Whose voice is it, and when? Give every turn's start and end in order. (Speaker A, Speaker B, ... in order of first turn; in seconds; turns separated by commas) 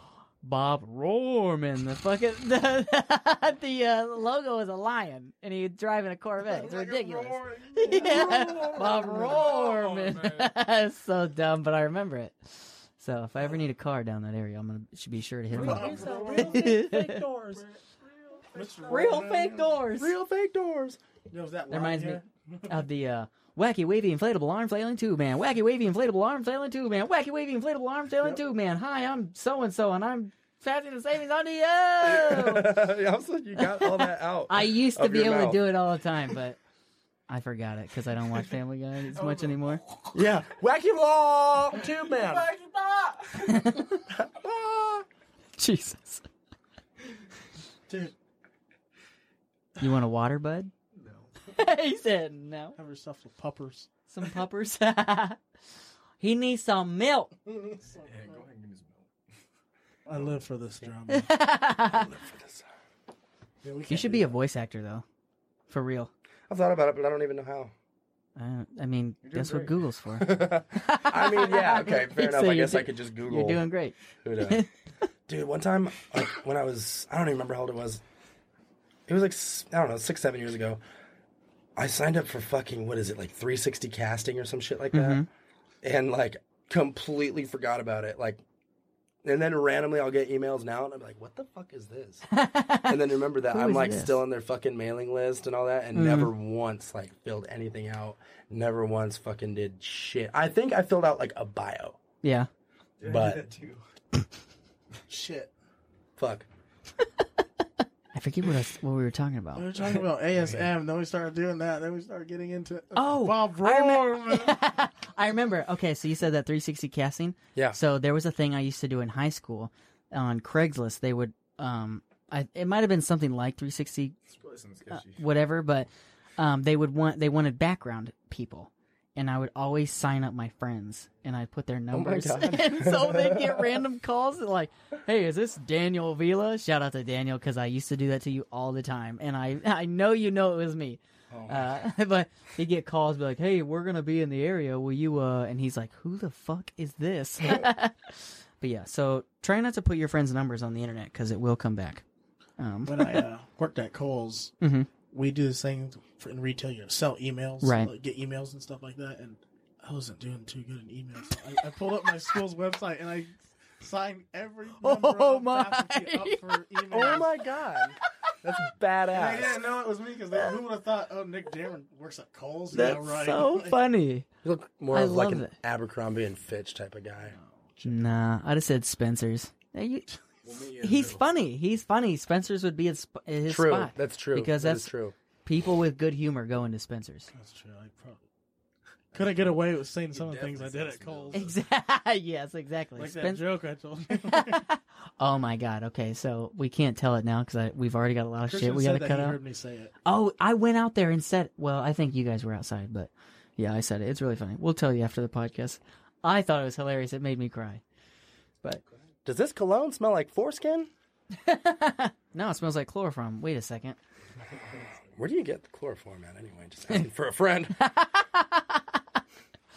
Speaker A: 0.4-17.2, Speaker B: 6.5-9.3, Speaker C: 6.6-10.5, Speaker C: 15.5-16.7, Speaker B: 15.5-17.6, Speaker D: 16.0-16.7, Speaker C: 17.5-19.2, Speaker B: 18.5-19.7, Speaker A: 18.9-20.1, Speaker D: 19.9-21.0, Speaker B: 21.3-22.8, Speaker A: 21.7-32.8, Speaker D: 32.0-35.6, Speaker A: 33.6-36.6, Speaker A: 37.3-39.8, Speaker C: 39.1-40.1, Speaker D: 40.1-42.5, Speaker C: 41.8-43.7, Speaker A: 43.4-44.0, Speaker D: 44.2-45.0, Speaker A: 45.6-46.2, Speaker A: 49.8-50.7, Speaker C: 50.9-51.3, Speaker A: 51.5-52.8, Speaker B: 52.8-53.9, Speaker A: 54.1-55.4, Speaker A: 56.2-57.3, Speaker B: 57.5-58.4, Speaker C: 58.0-59.1, Speaker B: 60.0-61.3, Speaker A: 61.1-62.1, Speaker D: 61.9-62.7, Speaker B: 63.6-64.4, Speaker A: 63.9-65.0, Speaker A: 65.7-66.1, Speaker D: 66.5-67.7, Speaker A: 68.4-74.7, Speaker C: 69.2-69.8, Speaker D: 70.2-73.7, Speaker D: 74.2-74.6, Speaker D: 75.3-78.0, Speaker D: 79.1-80.8, Speaker D: 81.8-85.2, Speaker A: 84.9-85.3, Speaker D: 85.8-88.4, Speaker D: 89.2-92.3, Speaker A: 92.3-94.2, Speaker D: 92.8-102.0, Speaker A: 95.9-96.3, Speaker A: 102.2-102.5, Speaker C: 103.0-103.8, Speaker D: 103.0-103.5, Speaker B: 105.1-105.5, Speaker D: 106.2-106.5, Speaker A: 108.1-109.7, Speaker B: 109.5-114.6, Speaker C: 110.4-110.6, Speaker A: 113.0-124.2, Speaker C: 124.3-125.2, Speaker A: 124.9-152.0, Speaker D: 131.9-133.8, Speaker A: 152.6-153.2, Speaker B: 152.9-154.6, Speaker A: 154.6-154.9, Speaker B: 155.1-167.3, Speaker A: 157.6-157.9, Speaker A: 164.8-166.4, Speaker D: 166.9-169.6, Speaker B: 169.1-173.8, Speaker A: 172.7-174.3, Speaker D: 174.4-177.4, Speaker A: 174.9-175.5, Speaker B: 177.2-178.0, Speaker A: 177.8-180.2, Speaker C: 180.4-181.2, Speaker A: 180.8-184.9, Speaker D: 183.5-185.1, Speaker A: 185.4-187.3, Speaker B: 187.3-188.2, Speaker B: 189.1-191.5, Speaker C: 190.1-191.6, Speaker A: 191.3-193.4, Speaker B: 193.0-194.6, Speaker A: 194.1-199.4, Speaker B: 198.5-199.9, Speaker A: 200.1-207.8, Speaker D: 209.2-210.9, Speaker A: 211.4-214.0, Speaker D: 215.1-217.8, Speaker A: 217.8-219.0